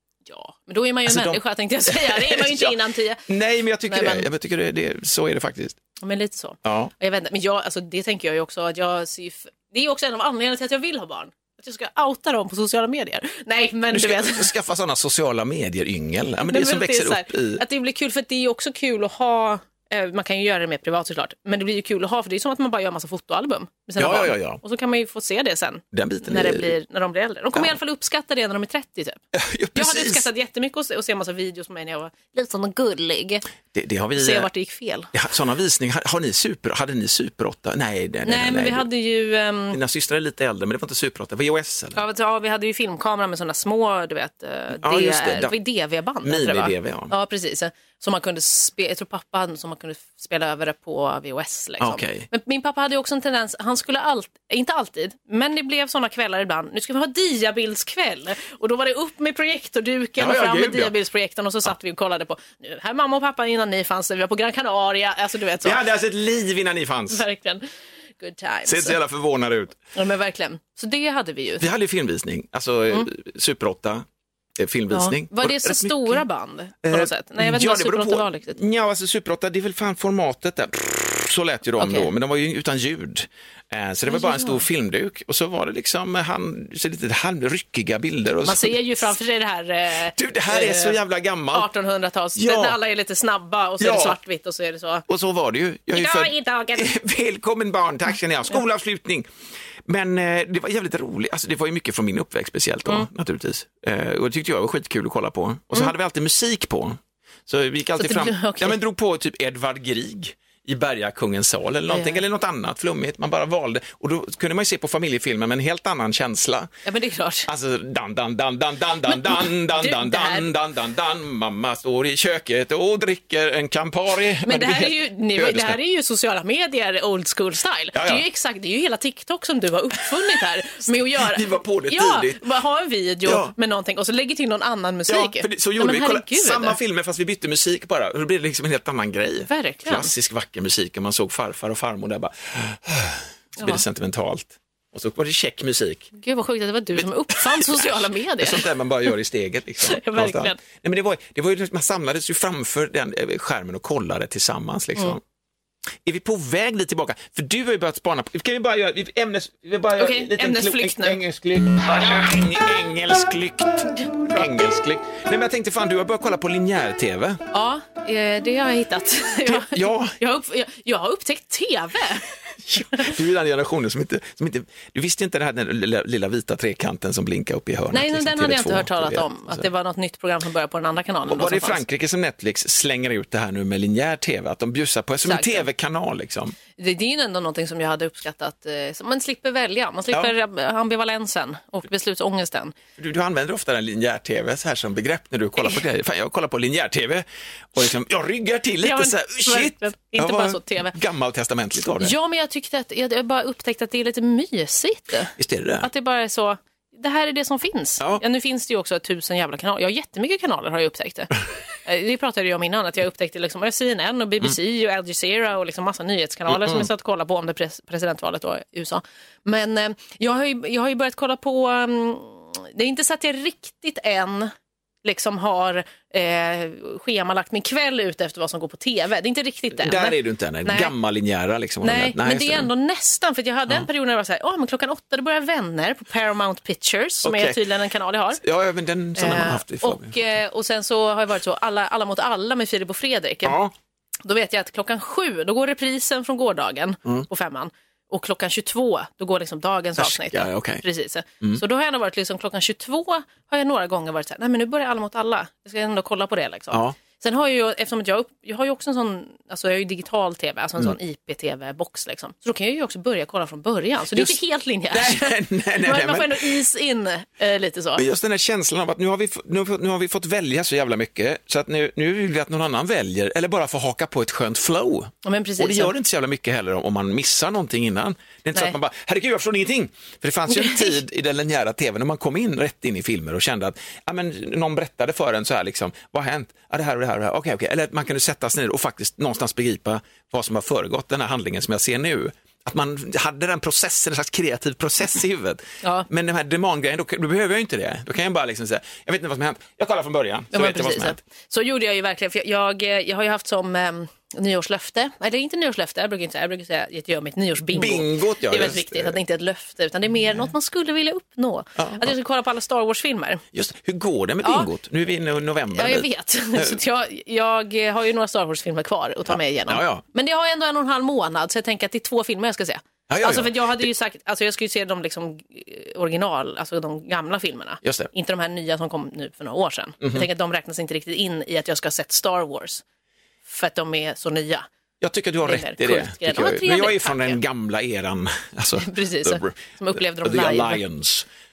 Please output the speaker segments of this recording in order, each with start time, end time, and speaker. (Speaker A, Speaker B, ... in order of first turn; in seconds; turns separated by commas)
Speaker A: 0.3-3.2, Speaker B: 1.1-2.8, Speaker B: 3.3-5.8, Speaker A: 3.9-4.3, Speaker A: 6.0-14.5, Speaker B: 6.6-6.9, Speaker B: 13.9-17.6, Speaker A: 16.4-29.2, Speaker B: 24.0-24.6, Speaker B: 25.9-26.7, Speaker B: 29.3-30.3, Speaker A: 29.7-33.5, Speaker B: 33.7-34.5, Speaker A: 34.2-35.1, Speaker B: 35.1-38.9, Speaker A: 38.2-39.8, Speaker B: 39.7-42.0, Speaker A: 42.0-65.8, Speaker B: 44.8-45.5, Speaker B: 46.2-47.1, Speaker B: 51.8-52.3, Speaker B: 60.2-60.9, Speaker B: 65.6-67.2, Speaker A: 67.1-69.0, Speaker B: 68.7-69.8, Speaker A: 69.9-71.7, Speaker B: 71.6-74.0, Speaker B: 74.6-76.2, Speaker A: 74.9-78.6, Speaker B: 76.8-88.7, Speaker A: 81.8-82.1, Speaker A: 84.1-84.6, Speaker A: 88.4-91.0, Speaker B: 90.1-91.7, Speaker A: 91.5-95.0, Speaker B: 92.4-92.8, Speaker B: 93.8-94.2, Speaker B: 95.1-99.2, Speaker A: 95.9-96.9, Speaker B: 99.8-116.7, Speaker A: 108.0-108.8, Speaker A: 111.9-112.2, Speaker A: 116.8-117.5, Speaker B: 117.5-125.8, Speaker A: 119.1-120.5, Speaker A: 124.4-136.8, Speaker B: 127.9-128.2, Speaker B: 131.2-132.4, Speaker B: 133.2-133.5, Speaker B: 135.1-146.1, Speaker A: 139.5-140.1, Speaker A: 143.6-143.8, Speaker A: 146.2-148.7, Speaker B: 147.3-155.2, Speaker A: 149.8-150.6, Speaker B: 156.0-167.4, Speaker A: 160.0-161.2, Speaker A: 167.5-173.1, Speaker B: 169.4-170.2, Speaker B: 172.7-179.7, Speaker A: 177.9-181.8, Speaker B: 181.3-186.6, Speaker A: 185.2-185.7, Speaker A: 186.8-192.7, Speaker B: 193.0-202.1, Speaker A: 198.8-200.9, Speaker A: 202.0-211.3, Speaker B: 205.4-205.9, Speaker A: 211.8-230.9, Speaker B: 216.5-216.9, Speaker B: 229.8-232.7, Speaker A: 231.8-238.4, Speaker B: 237.2-237.6, Speaker B: 238.4-240.2, Speaker A: 239.2-243.6, Speaker B: 243.4-243.7, Speaker A: 244.2-268.0, Speaker B: 250.0-250.8, Speaker B: 256.7-256.9, Speaker B: 264.1-264.4, Speaker B: 264.9-266.6, Speaker B: 267.9-301.2, Speaker A: 275.2-275.9, Speaker A: 280.5-280.9, Speaker A: 295.8-296.1, Speaker A: 300.5-313.4, Speaker B: 307.7-309.2, Speaker B: 311.8-312.1, Speaker B: 313.5-316.8, Speaker A: 314.4-314.7, Speaker A: 315.7-332.8, Speaker B: 319.7-320.0, Speaker B: 323.1-323.9, Speaker B: 327.8-328.1, Speaker B: 330.0-330.3, Speaker A: 333.5-334.7, Speaker B: 335.0-341.2, Speaker A: 335.4-337.4, Speaker A: 338.8-340.8